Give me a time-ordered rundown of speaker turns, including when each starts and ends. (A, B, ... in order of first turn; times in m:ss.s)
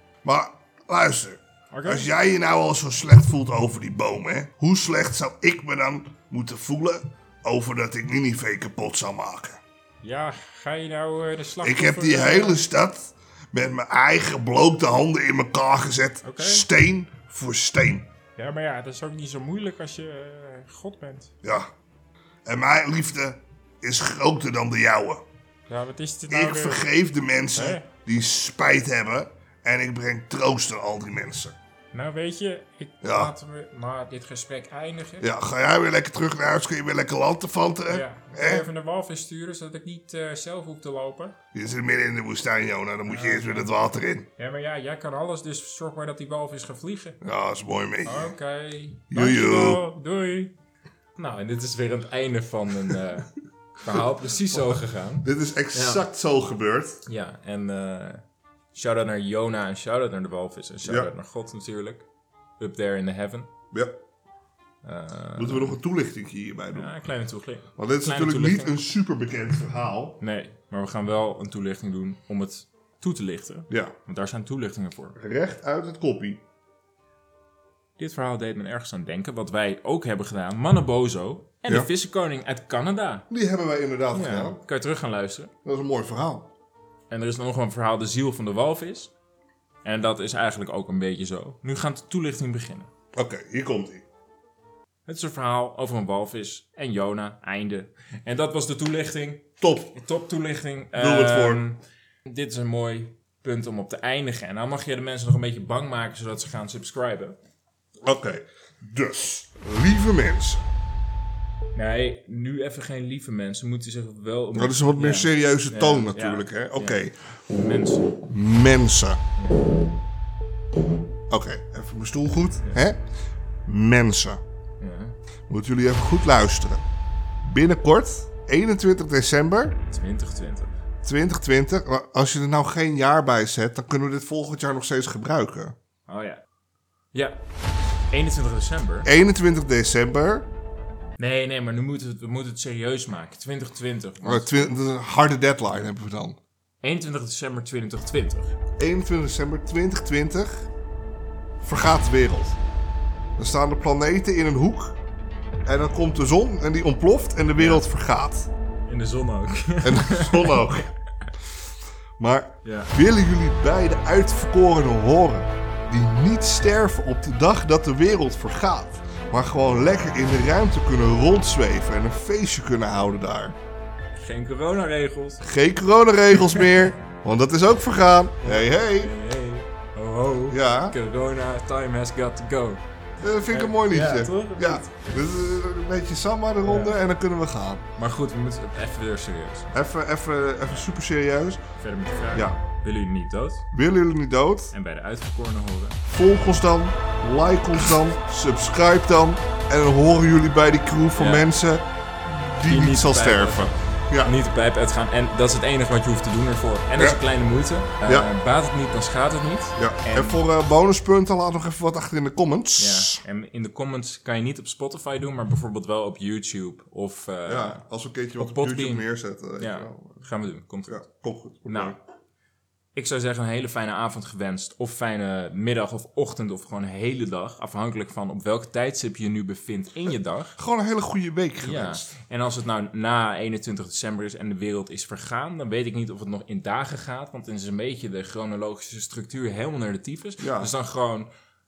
0:00.2-0:09.6 A
0:10.1-0:12.6 B
0:10.1-0:10.7 C
0:11.6-0:18.1 A
0:16.3-0:16.6 C
0:18.4-0:21.3 B
0:21.4-0:21.7 A
0:22.4-0:25.2 A
0:25.7-0:26.8 B
0:26.3-0:31.6 A
0:27.5-0:27.8 B
0:31.9-0:35.2 B
0:33.0-0:33.3 A
0:34.0-0:35.2 C
0:35.2-0:38.6 A
0:37.9-0:41.1 B
0:40.9-0:41.3 C
0:41.5-0:44.3 A
0:43.0-0:43.7 C
0:44.4-0:47.2 C
0:47.2-0:48.3 A
0:48.0-0:50.5 C
0:49.1-0:49.8 A
0:51.2-0:56.0 C
0:55.2-0:57.0 A
0:57.0-1:02.0 C
1:00.8-1:01.1 A
1:02.6-1:03.5 C
1:04.8-1:05.8 C
1:05.4-1:06.9 A
1:06.7-1:08.8 C
1:07.8-1:10.2 A
1:10.2-1:15.2 C
1:15.2-1:16.4 A
1:18.0-1:23.2 C
1:23.3-1:24.6 A
1:24.1-1:25.5 C
1:25.6-1:26.5 A
1:27.1-1:29.1 C
1:29.8-1:32.9 C
1:33.1-1:34.0 A
1:35.0-1:47.4 C
1:39.6-1:40.0 A
1:40.9-1:41.6 A
1:48.0-1:50.6 A
1:51.7-1:58.1 C
1:54.5-1:57.1 A
1:58.3-1:59.2 A
1:59.4-1:59.6 C
2:01.3-2:03.0 A
2:03.6-2:04.4 A
2:04.8-2:05.2 C
2:05.5-2:06.8 A
2:07.4-2:09.8 A
2:09.9-2:10.7 C
2:11.0-2:15.7 A
2:16.1-2:16.4 C
2:18.1-2:19.1 C
2:19.0-2:20.5 A
2:21.2-2:24.6 C
2:24.2-2:26.4 A
2:26.8-2:28.5 C
2:28.8-2:30.6 A
2:31.6-2:32.6 A
2:33.4-2:35.0 A
2:35.6-2:38.5 A
2:37.5-2:37.8 C
2:38.8-2:40.7 C
2:39.8-2:40.9 A
2:42.2-2:53.6 A
2:42.6-2:42.9 C
2:54.2-2:55.4 C
2:55.4-2:59.1 A
2:56.4-2:56.7 C
2:58.4-3:02.8 C
3:00.5-3:01.0 A
3:03.2-3:07.8 A
3:03.4-3:05.1 C
3:06.6-3:07.0 C
3:08.0-3:09.7 C
3:09.7-3:11.6 A
3:11.8-3:13.6 C
3:12.3-3:12.6 A
3:13.7-3:14.7 A
3:14.7-3:16.0 C
3:16.1-3:24.3 A
3:21.2-3:21.5 C
3:22.6-3:30.4 C
3:29.8-3:33.2 A
3:32.8-3:37.8 C
3:37.4-3:40.3 A
3:38.4-3:39.0 C
3:39.6-3:41.0 C
3:40.9-3:42.0 A
3:41.7-3:42.0 C
3:42.9-3:50.6 C
3:50.6-3:52.1 A
3:51.6-4:01.3 C
4:00.4-4:00.7 A